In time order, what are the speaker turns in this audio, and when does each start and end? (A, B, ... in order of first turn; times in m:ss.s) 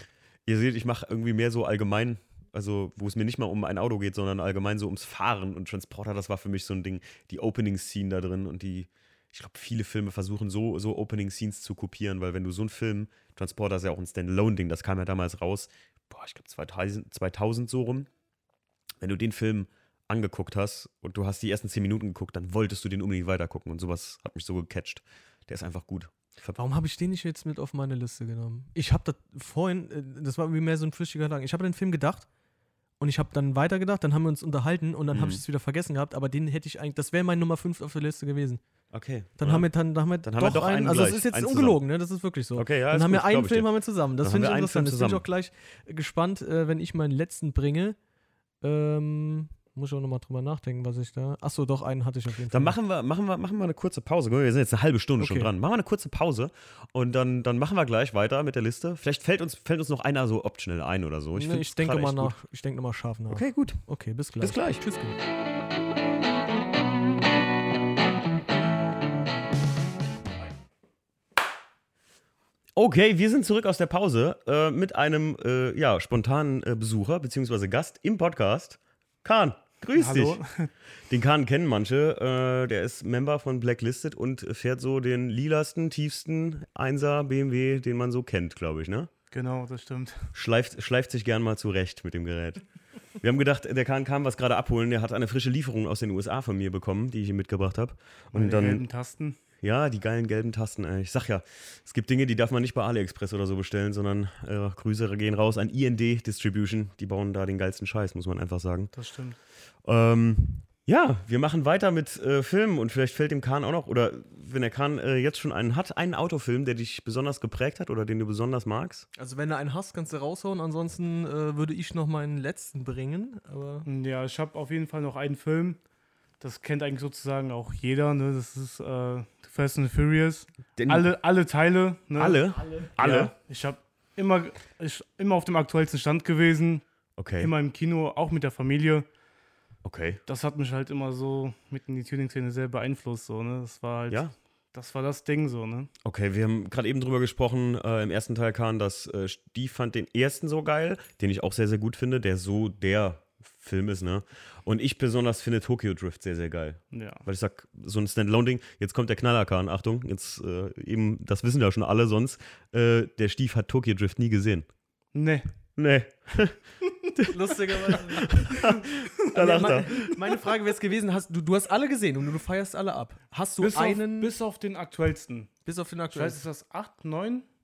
0:00.5-0:18.1 A
0:19.0-0:26.6 A
0:26.6-0:32.3 B
0:33.0-0:38.6 B
0:35.1-0:35.4 A
0:38.9-0:39.7 A
0:39.4-0:48.0 B
0:40.2-0:41.8 A
0:42.6-0:43.7 A
0:44.2-0:45.2 A
0:48.6-0:52.8 B
0:52.5-1:02.3 A
0:55.2-0:55.5 B
1:01.3-1:05.2 B
1:03.3-1:03.8 A
1:04.4-1:04.8 A
1:12.8-1:20.4 A
1:20.0-1:20.7 C
1:21.1-1:29.1 A
1:29.3-1:30.3 C
1:30.3-1:32.6 A
1:33.2-1:38.8 A
1:38.3-1:39.4 C
1:39.6-1:48.9 A
1:48.9-1:49.4 C
1:49.8-1:59.1 A
1:59.2-2:03.9 B
2:03.8-2:05.8 C
2:06.4-2:16.8 C
2:10.8-2:11.1 A
2:12.2-2:13.3 A
2:12.6-2:12.9 B
2:17.2-2:17.5 A
2:17.4-2:19.1 C
2:19.8-2:20.2 A
2:20.3-2:25.9 C
2:26.0-2:44.7 A
2:36.9-2:37.2 C
2:45.1-2:45.5 C
2:45.8-2:46.6 A
2:47.2-2:50.1 A
2:47.3-2:54.3 B
2:53.6-2:55.5 C
2:55.6-2:56.4 B
2:56.1-2:57.5 C